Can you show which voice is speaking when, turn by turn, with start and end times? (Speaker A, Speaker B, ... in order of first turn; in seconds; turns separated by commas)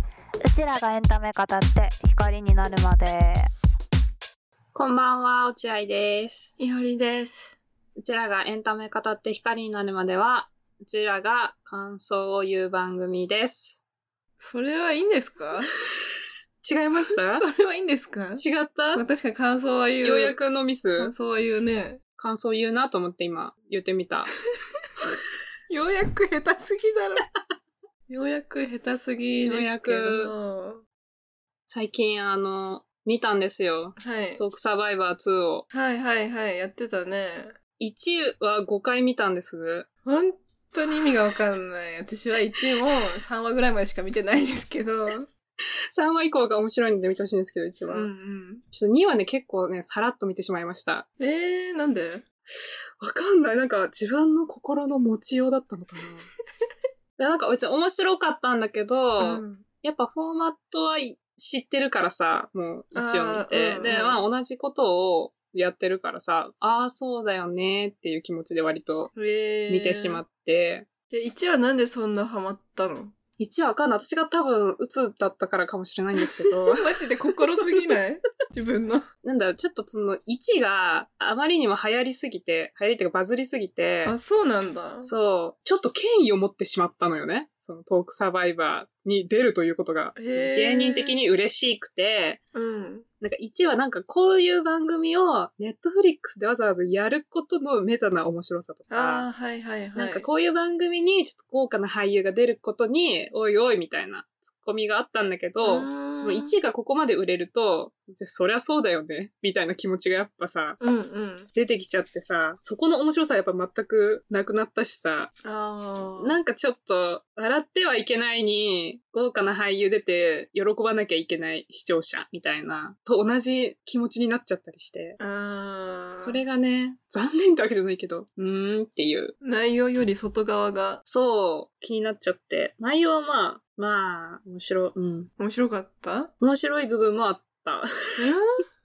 Speaker A: 0.5-3.5, Speaker B: 4.8-6.5, Speaker C: 6.6-7.6, Speaker B: 8.0-13.8, Speaker C: 14.4-15.7, Speaker B: 16.6-17.5, Speaker C: 17.0-20.4, Speaker B: 18.4-19.0, Speaker B: 20.0-21.1, Speaker C: 21.0-22.0, Speaker B: 22.2-24.3, Speaker C: 25.7-27.3, Speaker C: 28.1-30.8, Speaker B: 29.4-30.3, Speaker B: 31.7-35.7, Speaker C: 34.0-34.4, Speaker C: 35.7-37.6, Speaker B: 37.8-39.9, Speaker C: 40.0-45.3, Speaker B: 45.9-48.1, Speaker C: 47.9-48.6, Speaker B: 48.7-51.1, Speaker C: 51.2-52.2, Speaker B: 52.5-56.3, Speaker B: 57.2-69.2, Speaker C: 59.2-59.6, Speaker C: 62.9-64.2, Speaker C: 69.2-70.2, Speaker B: 69.7-70.9, Speaker C: 71.1-73.2, Speaker B: 73.4-76.9, Speaker C: 76.3-79.1, Speaker B: 77.5-77.8, Speaker B: 79.2-84.2, Speaker C: 84.0-85.1, Speaker B: 85.0-92.4, Speaker C: 90.2-91.2, Speaker C: 92.5-93.0, Speaker B: 93.2-99.3, Speaker C: 98.9-100.3, Speaker B: 99.9-110.8, Speaker C: 105.6-106.6, Speaker C: 110.8-111.5, Speaker B: 111.5-115.3, Speaker C: 115.4-116.4, Speaker B: 116.2-125.2, Speaker C: 125.2-126.4, Speaker B: 126.2-129.3, Speaker C: 129.4-131.0, Speaker B: 131.1-135.3, Speaker C: 135.4-136.3, Speaker B: 136.4-138.3, Speaker C: 138.2-138.6